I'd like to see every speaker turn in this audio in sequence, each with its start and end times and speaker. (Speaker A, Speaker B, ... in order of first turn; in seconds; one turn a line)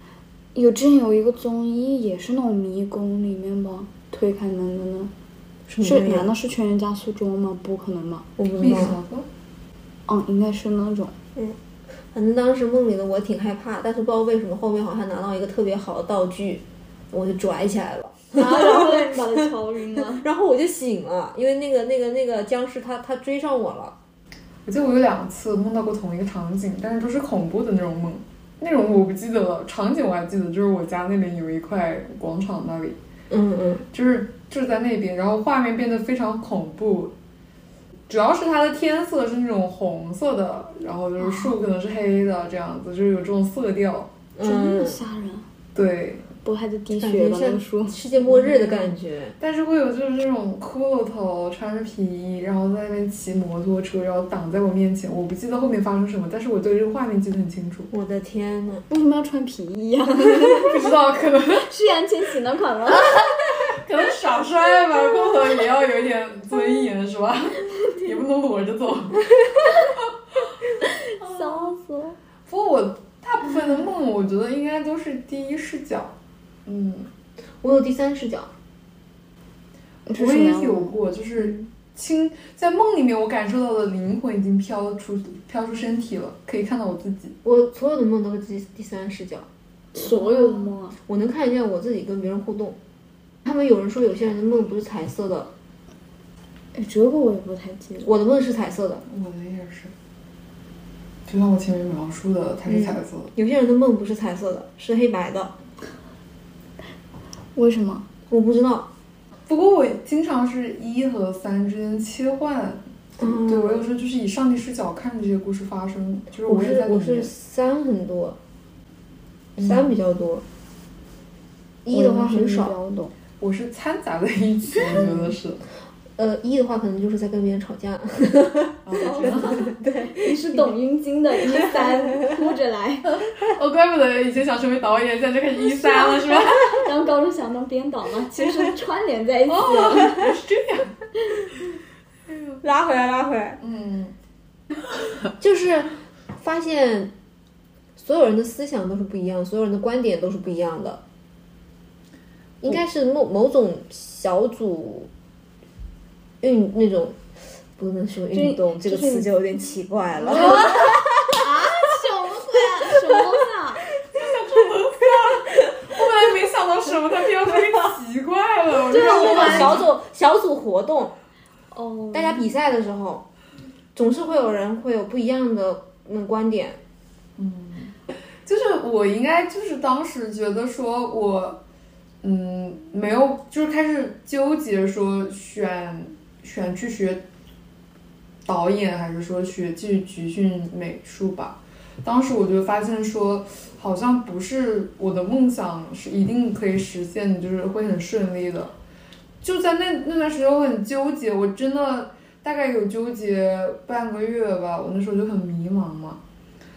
Speaker A: 0.6-5.1
Speaker B: 5.7-6.3
Speaker A: 5.8-8.3
Speaker B: 8.4-9.0
Speaker C: 8.6-9.3
Speaker A: 10.1-11.2
Speaker B: 12.1-19.3
Speaker A: 18.3-20.2
Speaker B: 20.0-24.0
Speaker C: 24.7-33.0
Speaker B: 33.3-33.9
Speaker C: 33.9-37.1
Speaker C: 38.1-44.1
Speaker A: 41.2-41.5
Speaker B: 44.4-45.0
Speaker A: 44.4-45.5
Speaker C: 45.8-46.3
Speaker A: 46.4-48.0
Speaker B: 47.0-49.4
Speaker C: 48.2-57.9
Speaker B: 57.9-58.9
Speaker A: 58.9-60.8
Speaker C: 60.3-61.7
Speaker A: 61.6-63.2
Speaker C: 63.1-69.2
Speaker A: 71.1-72.2
Speaker C: 71.2-71.8
Speaker C: 72.5-76.1
Speaker C: 76.7-77.1
Speaker B: 77.6-78.5
Speaker A: 80.1-81.5
Speaker C: 80.2-87.4
Speaker B: 87.4-89.5
Speaker A: 89.9-91.0
Speaker B: 91.1-92.8
Speaker B: 93.5-95.5
Speaker A: 96.8-98.1
Speaker B: 98.0-99.0
Speaker C: 99.1-99.9
Speaker C: 101.3-103.3
Speaker B: 102.7-105.5
Speaker A: 107.5-108.1
Speaker B: 108.3-108.9
Speaker C: 109.5-117.3
Speaker B: 113.2-113.8
Speaker B: 116.5-118.4
Speaker C: 119.6-119.9
Speaker B: 119.6-120.5
Speaker B: 121.8-122.8
Speaker A: 121.9-123.1
Speaker C: 123.4-125.6
Speaker B: 126.2-130.7
Speaker C: 128.8-129.6
Speaker A: 128.9-133.1
Speaker B: 131.6-132.2
Speaker C: 133.1-136.9
Speaker A: 135.6-140.2
Speaker C: 139.5-141.0
Speaker B: 140.0-140.3
Speaker B: 142.5-143.6
Speaker C: 143.6-144.1
Speaker B: 145.4-147.1
Speaker B: 148.0-151.0
Speaker B: 152.6-155.1
Speaker B: 156.4-157.2
Speaker B: 157.8-161.0
Speaker A: 158.3-159.3
Speaker A: 160.3-163.9
Speaker C: 164.1-169.9
Speaker A: 168.8-169.8
Speaker B: 168.9-171.1
Speaker A: 171.7-172.5
Speaker B: 172.1-173.3
Speaker B: 173.9-176.8
Speaker C: 177.4-181.6
Speaker C: 182.2-187.2
Speaker C: 188.5-198.7
Speaker C: 199.4-206.2